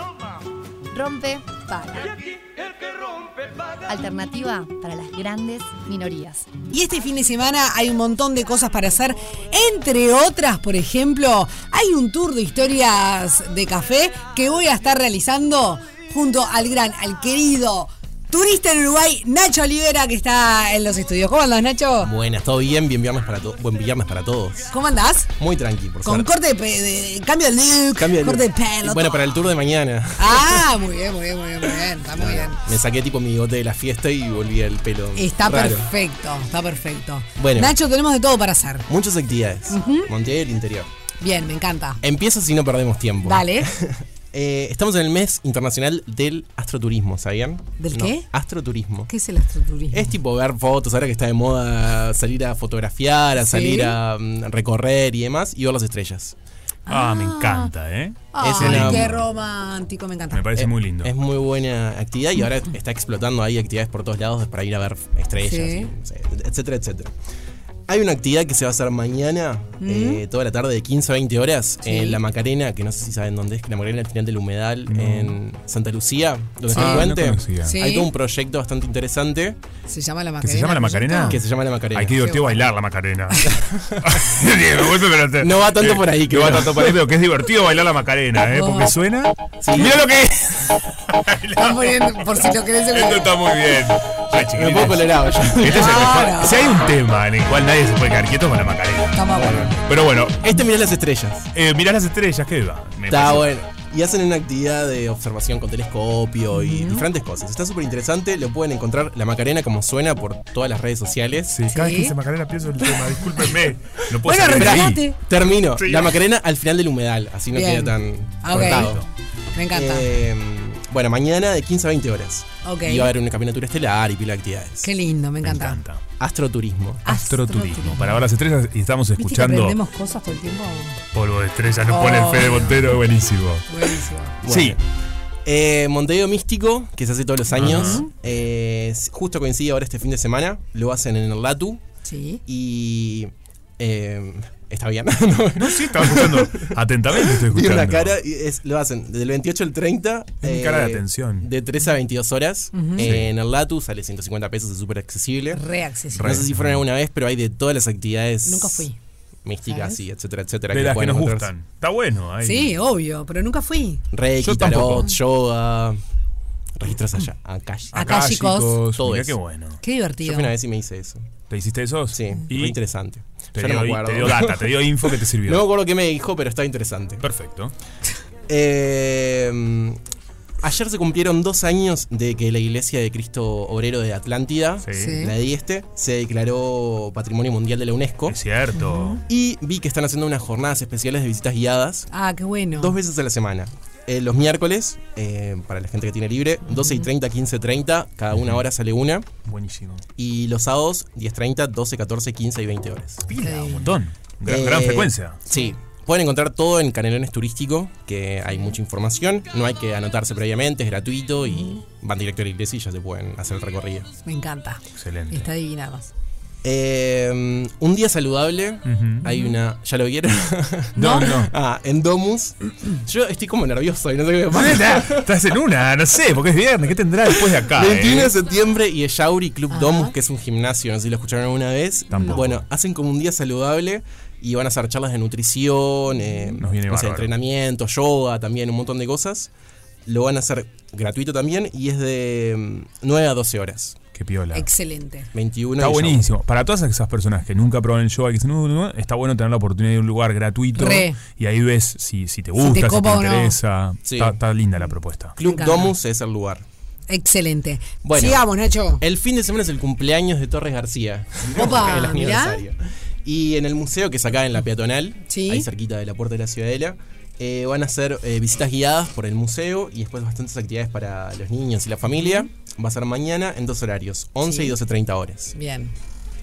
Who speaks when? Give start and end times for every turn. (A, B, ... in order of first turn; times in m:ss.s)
0:00.9-0:02.2 A
0:03.8-0:06.5 A
0:06.7-0:22.1 B
0:22.0-0:24.7 C
0:24.7-0:25.3 B
0:25.4-0:26.3 C
0:26.0-0:29.2 B
0:28.0-0:30.8 C
0:30.2-0:32.7 B
0:31.6-0:35.9 C
0:35.1-0:38.9 B
0:37.4-0:37.8 C
0:38.9-0:40.9 C
0:39.7-0:40.1 B
0:41.2-0:42.0 B
0:42.0-0:49.1 C
0:43.2-0:43.7 B
0:47.8-0:48.3 B
0:49.1-0:50.1 B
0:49.9-0:56.3 C
0:53.4-0:54.0 B
0:56.9-0:57.7 B
0:56.9-0:59.2 D
0:58.3-1:00.5 B
0:58.4-0:59.1 C
1:00.3-1:01.1 D
1:00.6-1:07.1 C
1:05.4-1:05.9 B
1:07.9-1:19.6 C
1:09.8-1:10.2 B
1:11.8-1:12.2 B
1:14.9-1:15.4 D
1:16.7-1:17.1 B
1:16.7-1:17.8 D
1:17.6-1:18.1 B
1:19.9-1:21.4 B
1:20.4-1:32.2 D
1:21.3-1:22.2 C
1:22.1-1:22.7 B
1:23.3-1:23.6 B
1:25.4-1:27.1 C
1:28.5-1:28.9 B
1:29.6-1:30.0 C
1:31.5-1:33.4 B
1:32.9-1:39.2 D
1:34.3-1:36.3 C
1:35.7-1:36.8 B
1:39.1-1:39.8 B
1:39.3-1:39.8 C
1:39.8-1:40.5 D
1:40.4-1:41.5 C
1:41.5-1:43.5 D
1:43.1-1:51.5 C
1:46.5-1:47.1 B
1:51.5-1:55.0 D
1:51.7-1:52.2 B
1:52.8-1:53.2 B
1:54.2-1:55.2 B
1:54.5-1:59.0 C
1:55.6-1:56.1 D
1:57.5-1:59.0 B
1:58.5-1:59.1 D
1:59.5-2:00.1 B
1:59.7-2:04.9 C
2:02.6-2:03.1 B
2:04.8-2:05.8 B
2:05.4-2:06.0 D
2:06.2-2:07.0 C
2:07.0-2:08.3 B
2:07.1-2:09.8 D
2:09.2-2:11.0 B
2:11.1-2:13.9 D
2:11.9-2:12.8 B
2:13.7-2:14.4 B
2:14.4-2:14.8 C
2:14.4-2:14.8 D
2:15.4-2:21.8 C
2:17.5-2:18.4 D
2:17.6-2:18.1 B
2:22.0-2:22.4 B
2:22.4-2:35.6 C
2:25.6-2:28.2 D
2:30.4-2:31.5 D
2:32.7-2:33.1 B
2:33.0-2:33.3 D
2:35.5-2:36.4 B
2:36.2-2:36.8 D
2:36.2-2:38.9 C
2:38.4-2:39.0 B
2:39.4-2:41.5 C
2:39.7-2:40.0 B
2:40.7-2:42.8 D
2:42.4-2:44.0 B
2:44.1-2:46.0 C
2:44.4-2:45.2 D
2:46.8-2:48.1 C
2:47.9-2:49.8 D
2:47.9-2:48.8 B
2:48.9-2:49.4 C
2:49.8-2:50.5 B
2:50.2-2:51.2 C
2:51.5-2:52.8 D
2:52.1-2:57.2 C
2:53.5-2:55.6 D
2:57.2-2:57.7 D
2:58.5-3:00.0 C
3:00.6-3:08.4 C
3:04.8-3:05.2 D
3:04.9-3:05.4 B
3:08.3-3:09.2 D
3:08.7-3:09.2 B
3:09.3-3:12.1 C
3:12.1-3:13.0 B
3:12.7-3:19.3 C
3:16.7-3:17.0 B
3:18.3-3:18.6 D
3:19.4-3:20.0 D
3:20.2-3:23.2 C
3:23.3-3:25.4 D
3:23.4-3:24.0 B
3:24.4-3:34.1 C
3:34.2-3:36.1 B
3:34.9-3:35.5 D
3:36.6-3:45.3 C
3:38.8-3:39.2 D
3:41.0-3:41.3 B
3:41.0-3:41.5 D
3:44.5-3:48.3 D
3:47.3-3:59.5 C
3:49.7-3:50.1 B
3:52.1-3:52.6 D
3:56.6-3:57.3 D
4:00.0-4:04.0 C
4:04.1-4:04.7 D
4:04.5-4:05.3 B
4:05.3-4:06.2 C
4:05.8-4:15.3 D
4:10.7-4:11.2 B
4:12.6-4:13.6 B
4:14.0-4:14.4 C
4:15.4-4:16.6 C
4:15.4-4:15.9 B
4:17.1-4:19.0 B
4:18.0-4:35.5 C
4:21.4-4:22.0 D
4:21.5-4:22.6 B
4:25.3-4:25.7 B
4:32.2-4:32.4 B
4:34.4-4:34.8 B
4:35.5-4:35.9 B